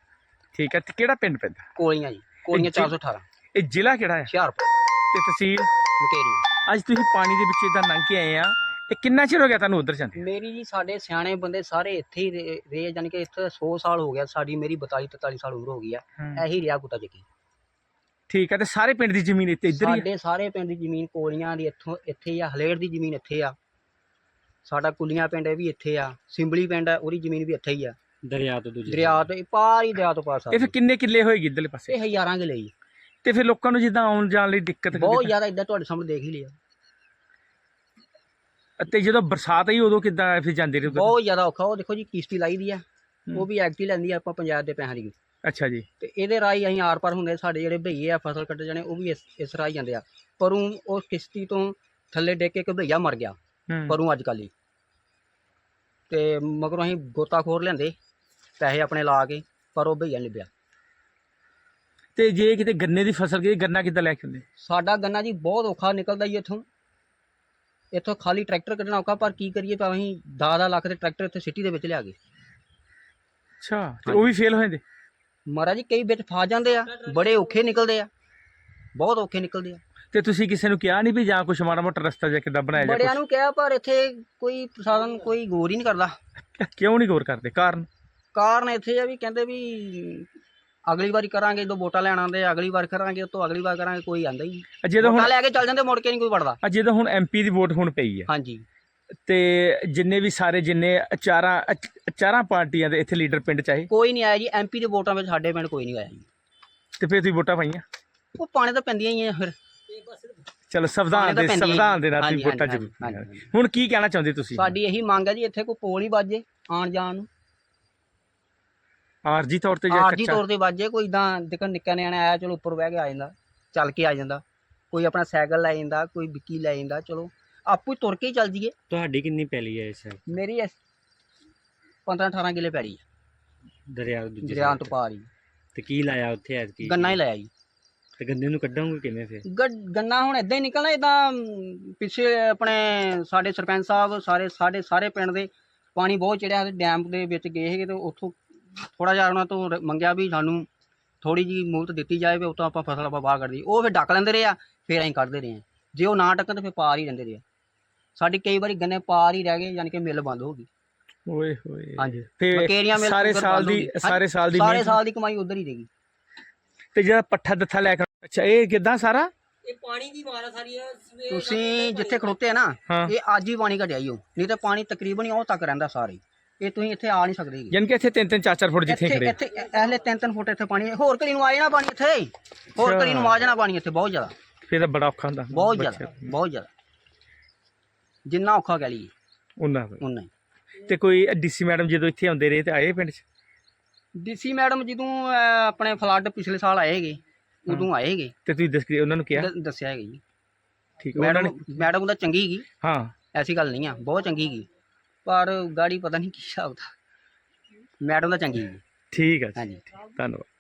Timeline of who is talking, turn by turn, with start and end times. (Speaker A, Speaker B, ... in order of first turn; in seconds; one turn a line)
Speaker A: 0.5-1.7
Speaker B: 1.8-3.2
Speaker A: 2.5-2.9
Speaker A: 3.5-4.3
Speaker B: 4.3-4.7
Speaker A: 5.1-5.7
Speaker B: 6.0-6.5
Speaker A: 6.7-10.2
Speaker B: 10.2-17.2
Speaker A: 18.3-20.1
Speaker B: 19.7-23.6
Speaker B: 24.6-28.0
Speaker C: 28.2-29.2
Speaker B: 28.9-30.7
Speaker A: 30.5-31.9
Speaker B: 31.9-32.7
Speaker A: 33.2-35.3
Speaker B: 34.9-36.6
Speaker A: 38.8-41.1
Speaker B: 40.9-45.1
Speaker A: 45.4-45.9
Speaker B: 46.0-53.4
Speaker A: 53.7-54.0
Speaker B: 53.9-54.5
Speaker B: 56.1-58.0
Speaker B: 58.6-60.5
Speaker A: 62.2-64.4
Speaker B: 64.6-66.7
Speaker B: 67.9-72.2
Speaker A: 73.6-74.8
Speaker B: 74.1-74.3
Speaker B: 75.5-78.1
Speaker B: 79.0-79.8
Speaker A: 80.1-83.2
Speaker B: 82.8-86.2
Speaker A: 86.6-87.9
Speaker B: 88.3-90.3
Speaker B: 90.9-96.6
Speaker A: 94.8-95.3
Speaker A: 96.6-98.3
Speaker B: 98.3-98.7
Speaker A: 99.3-103.9
Speaker B: 103.9-106.3
Speaker A: 107.0-107.8
Speaker B: 108.3-109.5
Speaker A: 110.7-114.8
Speaker B: 111.1-113.5
Speaker B: 114.6-117.3
Speaker A: 119.2-120.4
Speaker B: 119.9-128.8
Speaker C: 128.9-130.2
Speaker B: 130.3-130.8
Speaker B: 132.1-133.0
Speaker C: 133.9-134.9
Speaker B: 134.4-135.3
Speaker C: 135.7-137.2
Speaker B: 136.8-137.5
Speaker C: 138.2-139.4
Speaker B: 139.4-150.7
Speaker B: 151.2-157.4
Speaker B: 158.2-160.7
Speaker A: 161.3-165.0
Speaker B: 162.0-165.9
Speaker A: 166.9-169.3
Speaker D: 169.7-171.6
Speaker B: 171.2-177.8
Speaker A: 172.9-173.1
Speaker A: 177.7-179.4
Speaker B: 178.9-184.3
Speaker A: 182.8-183.4
Speaker A: 184.6-186.3
Speaker B: 185.5-186.7
Speaker B: 188.3-189.1
Speaker A: 189.6-190.0
Speaker B: 190.0-190.3
Speaker A: 190.8-193.2
Speaker B: 194.2-198.3
Speaker A: 198.5-199.5
Speaker B: 199.3-200.2
Speaker A: 201.0-201.7
Speaker B: 201.2-202.7
Speaker A: 202.8-203.1
Speaker B: 203.3-204.7
Speaker B: 205.3-206.9
Speaker B: 208.0-208.8
Speaker A: 209.1-210.5
Speaker B: 209.6-209.8